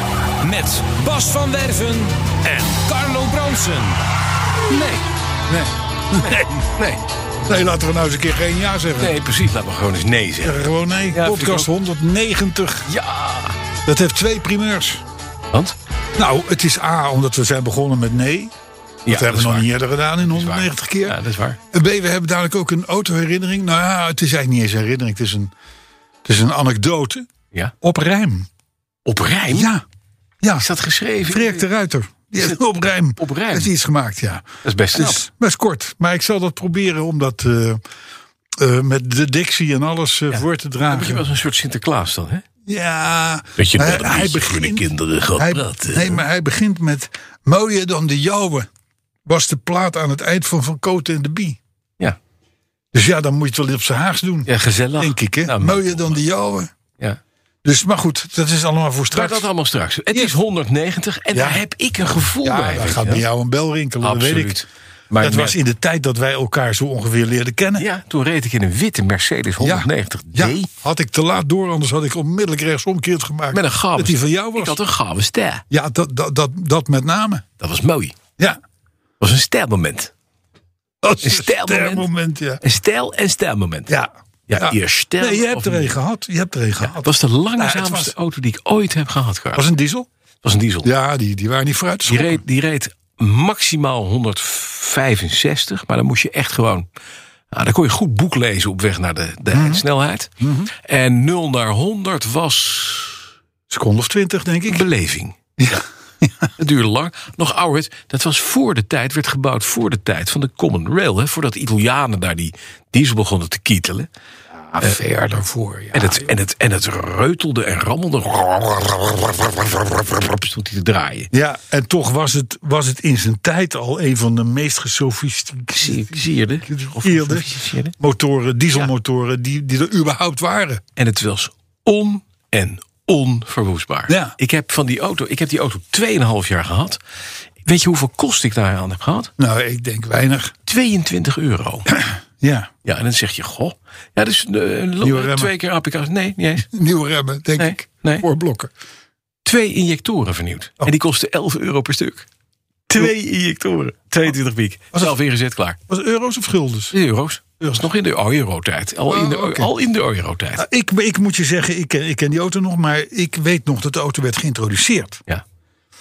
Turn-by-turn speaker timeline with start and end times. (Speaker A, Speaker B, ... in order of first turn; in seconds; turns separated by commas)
Speaker A: 0.4-4.0, Speaker B: 4.7-5.0, Speaker C: 5.5-6.5, Speaker B: 6.2-7.0, Speaker C: 7.4-9.1, Speaker B: 9.0-11.7, Speaker C: 10.4-12.9, Speaker B: 12.8-13.6, Speaker C: 13.8-15.0, Speaker C: 16.2-18.5, Speaker B: 19.1-21.6, Speaker C: 19.1-21.2, Speaker C: 21.7-25.5, Speaker C: 26.2-27.3, Speaker C: 27.8-28.5, Speaker B: 29.0-29.7, Speaker C: 29.5-29.8, Speaker C: 30.4-30.6, Speaker B: 30.5-31.7, Speaker C: 31.3-37.8, Speaker B: 33.2-33.7, Speaker B: 34.6-35.2, Speaker C: 38.6-41.2, Speaker B: 40.3-42.4, Speaker C: 42.6-48.7, Speaker B: 43.6-46.2, Speaker C: 49.2-51.6, Speaker C: 52.9-56.7, Speaker B: 54.5-56.2, Speaker C: 57.6-59.5, Speaker B: 59.1-63.2, Speaker C: 61.3-61.6, Speaker C: 62.4-64.6, Speaker B: 64.0-65.6, Speaker C: 65.2-67.9, Speaker B: 67.8-70.7, Speaker C: 69.6-74.8, Speaker B: 73.5-75.6, Speaker C: 75.7-77.4, Speaker B: 77.6-78.2, Speaker B: 79.2-80.1, Speaker C: 81.0-82.6, Speaker B: 81.2-82.1, Speaker B: 82.6-83.9, Speaker C: 83.9-88.1, Speaker B: 84.5-86.0, Speaker B: 86.8-89.6, Speaker C: 89.5-90.1, Speaker B: 90.4-90.9, Speaker C: 90.8-92.4, Speaker B: 92.1-96.8, Speaker B: 97.5-100.3, Speaker C: 99.5-99.8, Speaker C: 100.4-100.7, Speaker B: 100.8-103.2, Speaker C: 103.7-104.9, Speaker B: 104.7-105.3, Speaker C: 105.6-106.5, Speaker B: 106.6-114.1, Speaker C: 114.7-116.3, Speaker B: 115.9-121.3, Speaker C: 121.3-130.8, Speaker B: 125.8-127.9, Speaker B: 130.9-137.0, Speaker C: 134.1-134.3, Speaker B: 137.6-139.3, Speaker C: 139.4-140.5, Speaker B: 140.7-141.9, Speaker C: 141.9-142.7, Speaker B: 142.8-146.7, Speaker C: 145.0-145.5, Speaker C: 146.7-148.7, Speaker B: 147.6-148.2, Speaker B: 149.4-152.2, Speaker B: 152.9-155.8, Speaker C: 155.9-156.9, Speaker B: 156.9-160.6, Speaker C: 159.1-159.7, Speaker C: 160.6-165.2